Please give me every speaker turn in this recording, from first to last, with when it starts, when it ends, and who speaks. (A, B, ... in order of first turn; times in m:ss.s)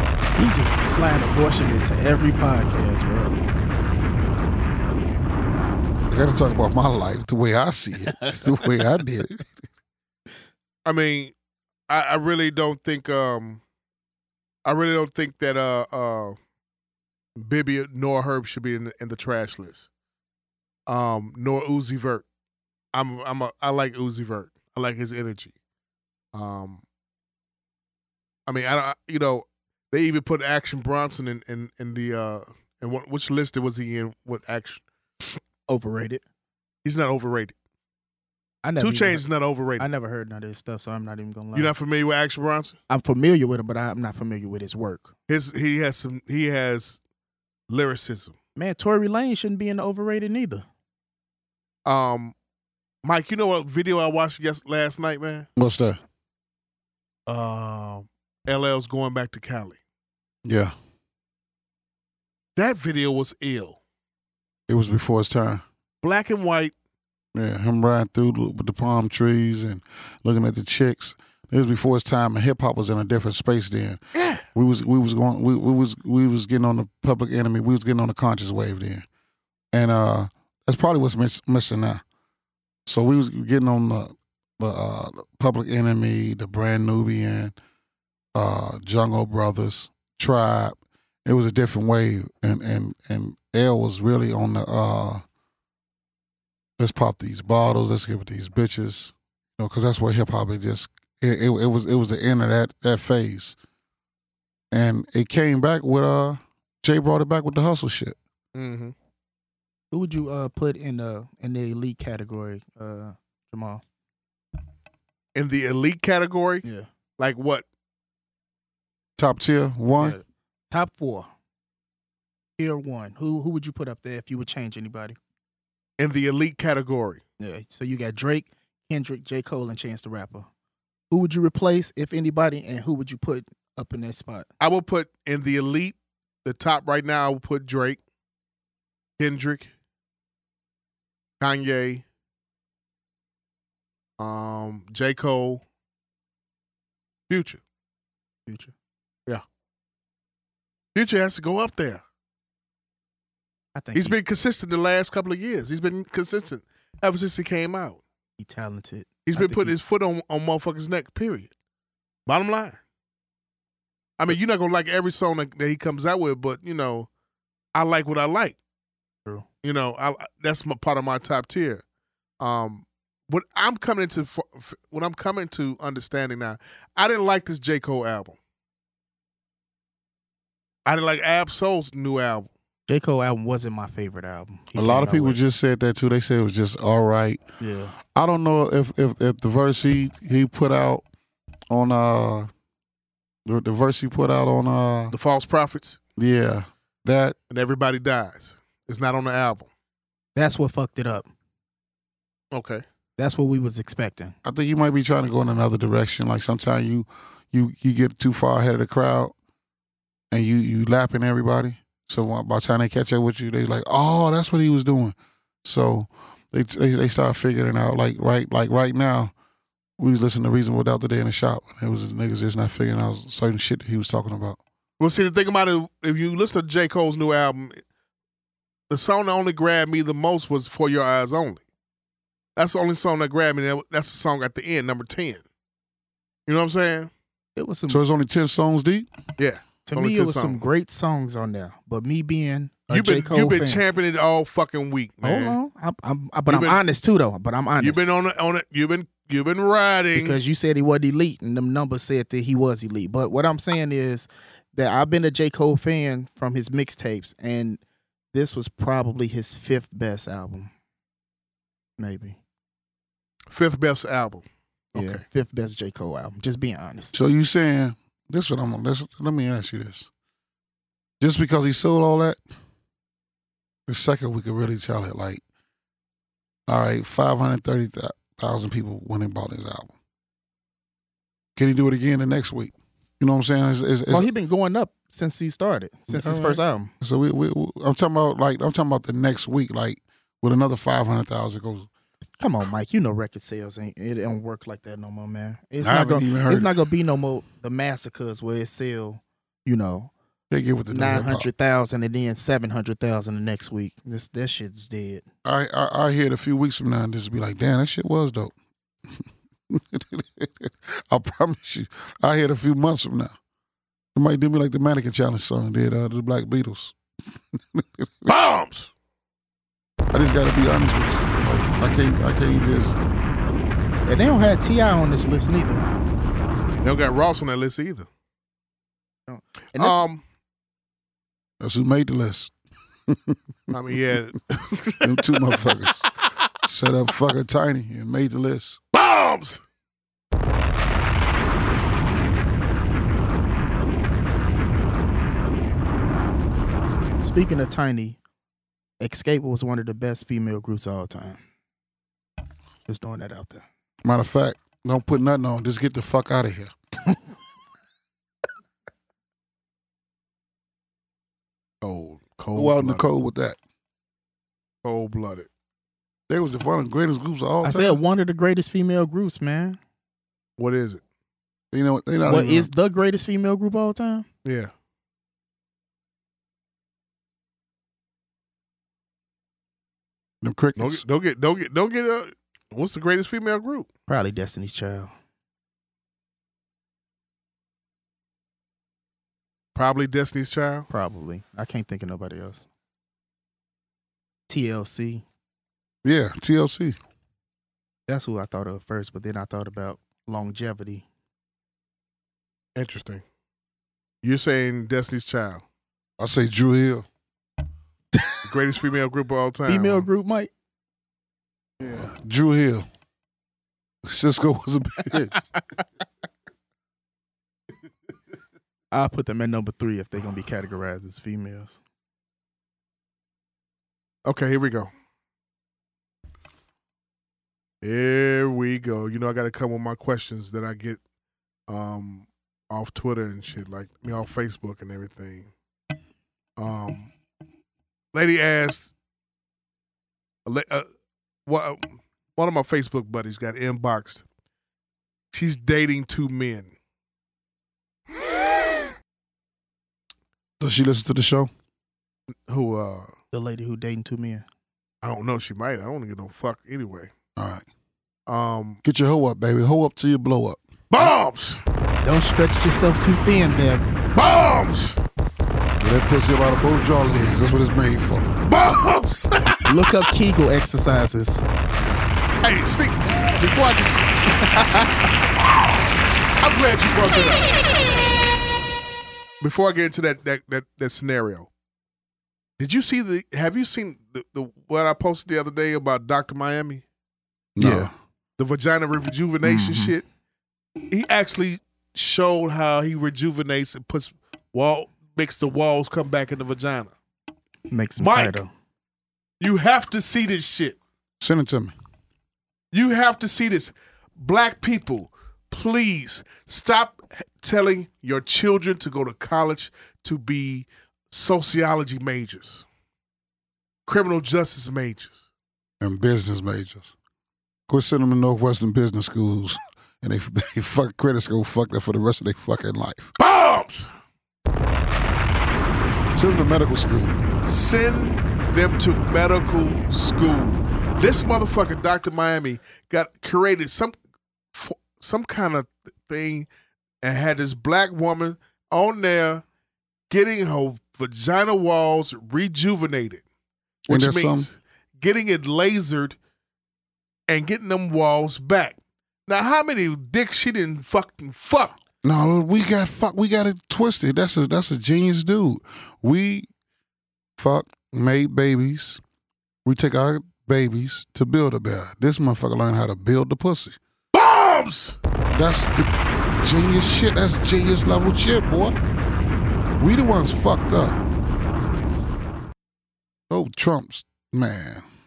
0:00.4-0:03.4 A
0:06.1-0:09.5 B
0:10.8-0:11.3 C
0:11.9-0:13.6 C
0:14.6-0:16.4 C
0:17.4-0:19.9 C
0:20.9-0:22.2 C
0:22.9-0:25.5 C
0:26.3-0:26.8 C
0:28.5-0:34.8 C
0:35.7-0:36.2 A
0:36.8-0:37.5 C
0:38.6-0:39.3 A
0:38.8-0:39.8 C
0:39.8-0:41.7 A
0:41.5-0:42.7 C
0:42.9-0:45.1 A
0:45.3-0:47.0 C
0:47.7-0:48.3 C
0:48.6-0:50.6 A
0:51.8-0:52.3 C
0:53.0-0:55.5 C
0:55.6-0:56.0 B
0:57.3-0:59.8 C
1:00.4-1:00.7 B
1:02.6-1:03.8 C
1:04.7-1:05.6 B
1:06.0-1:06.7 C
1:07.3-1:14.0 B
1:14.1-1:14.4 C
1:14.5-1:19.0 B
1:19.7-1:22.0 B
1:22.9-1:27.5 B
1:28.3-1:35.2 B
1:36.8-1:43.6 B
1:44.7-1:48.2 B
1:48.5-1:48.9 C
1:49.9-1:53.8 A
1:55.3-1:56.6 C
1:56.6-1:56.9 A
1:57.2-1:57.6 C
1:59.2-2:00.2 B
2:00.0-2:01.3 A
2:02.6-2:05.2 A
2:06.0-2:07.2 C
2:07.4-2:10.5 A
2:11.1-2:14.5 A
2:14.6-2:18.0 C
2:19.2-2:19.7 C
2:21.4-2:22.0 C
2:24.2-2:25.6 C
2:27.3-2:27.6 C
2:28.5-2:28.7 A
2:30.9-2:32.0 C
2:33.7-2:34.2 A
2:33.9-2:38.0 C
2:38.4-2:39.7 A
2:39.2-2:41.5 C
2:42.2-2:42.8 C
2:44.2-2:47.1 C
2:47.7-2:48.6 C
2:49.6-2:51.8 C
2:52.4-2:58.4 C
3:00.8-3:02.5 C
3:02.9-3:05.4 A
3:04.7-3:07.4 B
3:07.6-3:07.9 A
3:08.1-3:11.0 B
3:11.7-3:12.5 B
3:13.4-3:15.1 B
3:15.1-3:16.0 C
3:16.2-3:17.4 B
3:17.5-3:19.7 C
3:20.4-3:21.3 A
3:22.5-3:22.8 C
3:23.2-3:24.4 A
3:24.4-3:29.3 B
3:30.3-3:39.3 B
3:40.0-3:44.6 B
3:45.0-3:47.8 C
3:48.9-3:51.6 C
3:52.6-3:55.4 C
3:56.5-3:57.1 C
3:57.6-3:58.0 A
3:57.9-3:59.1 B
3:59.4-4:00.6 C
3:59.8-4:03.8 A
4:02.9-4:05.6 C
4:05.2-4:08.1 A
4:06.5-4:06.8 C
4:07.8-4:10.4 C
4:10.1-4:17.8 A
4:18.3-4:20.7 A
4:22.0-4:22.4 A
4:23.5-4:25.2 C
4:24.9-4:27.2 A
4:27.1-4:30.1 B
4:31.2-4:32.4 B
4:33.9-4:35.4 B
4:36.7-4:39.9 B
4:41.6-4:44.3 B
4:44.1-4:46.9 A
4:46.1-4:51.9 B
4:52.4-5:00.1 A
4:55.8-4:56.7 B
5:00.5-5:01.5 B
5:00.9-5:05.2 A
5:05.4-5:08.5 B
5:09.7-5:13.3 B
5:14.1-5:17.0 B
5:17.6-5:18.3 B
5:18.3-5:18.9 C
5:20.1-5:23.0 B
5:24.1-5:25.9 A
5:26.8-5:28.1 C
5:29.3-5:30.0 A
5:29.8-5:30.2 C
5:31.6-5:32.5 B
5:33.1-5:33.7 B
5:33.7-5:35.1 C
5:35.0-5:36.1 B
5:36.6-5:38.8 B
5:38.9-5:39.6 C
5:47.2-5:48.2 A
5:49.0-5:51.4 A
5:52.9-5:53.6 A
5:54.0-5:56.7 B
6:01.8-6:03.1 C
6:02.5-6:03.6 B
6:04.8-6:05.5 C
6:06.3-6:08.0 B
6:07.6-6:09.8 A
6:10.6-6:11.0 C
6:11.7-6:12.7 B
6:12.2-6:14.3 A
6:14.4-6:14.7 C
6:20.4-6:21.0 B
6:20.8-6:23.9 C
6:24.1-6:25.1 A
6:29.7-6:30.9 C
6:30.9-6:32.6 A
6:34.5-6:35.2 A
6:36.0-6:37.0 B
6:38.1-6:41.0 A
6:42.8-6:43.2 C
6:44.2-6:45.6 C
6:46.2-6:47.0 B
6:48.5-6:50.1 C
6:49.6-6:50.5 A
6:51.8-6:52.8 B
6:54.0-6:55.3 B
6:58.9-7:01.8 A
7:04.2-7:04.9 C
7:07.8-7:11.0 C
7:11.7-7:15.5 C
7:16.6-7:17.1 C
7:18.1-7:18.9 C
7:20.4-7:20.8 C
7:21.4-7:24.2 C
7:25.3-7:26.7 C
7:30.6-7:31.5 B
7:32.5-7:33.1 C
7:33.3-7:34.4 A
7:35.0-7:37.1 C
7:37.4-7:37.6 B
7:38.3-7:38.8 C
7:38.8-7:41.1 B
7:40.9-7:41.6 C
7:42.0-7:43.9 A
7:44.1-7:45.0 C
7:45.8-7:48.3 B
7:48.4-7:49.5 C
7:49.6-7:51.4 A
7:51.8-7:52.0 B
7:52.4-7:54.8 C
7:56.4-7:57.5 C
7:59.4-8:01.5 C
8:02.6-8:06.8 C
8:07.6-8:07.9 B
8:07.6-8:07.9 A
8:08.4-8:10.0 C
8:09.4-8:09.9 A
8:10.9-8:16.9 C
8:17.7-8:18.5 A
8:18.0-8:18.4 C
8:19.4-8:20.8 C
8:21.2-8:21.7 B
8:22.7-8:32.6 C
8:33.8-8:35.2 C
8:35.8-8:36.9 B
8:37.7-8:43.1 B
8:43.2-8:43.9 C
8:46.1-8:47.1 B
8:47.4-8:54.0 C
8:54.5-8:56.5 C
8:57.0-8:59.4 C
9:00.1-9:03.2 C
9:03.8-9:06.2 C
9:03.9-9:04.5 B
9:07.3-9:11.7 C
9:12.0-9:16.5 B
9:17.4-9:19.0 B
9:19.6-9:23.8 B
9:24.1-9:25.0 C
9:25.3-9:28.7 B
9:29.8-9:31.0 B
9:33.3-9:34.8 B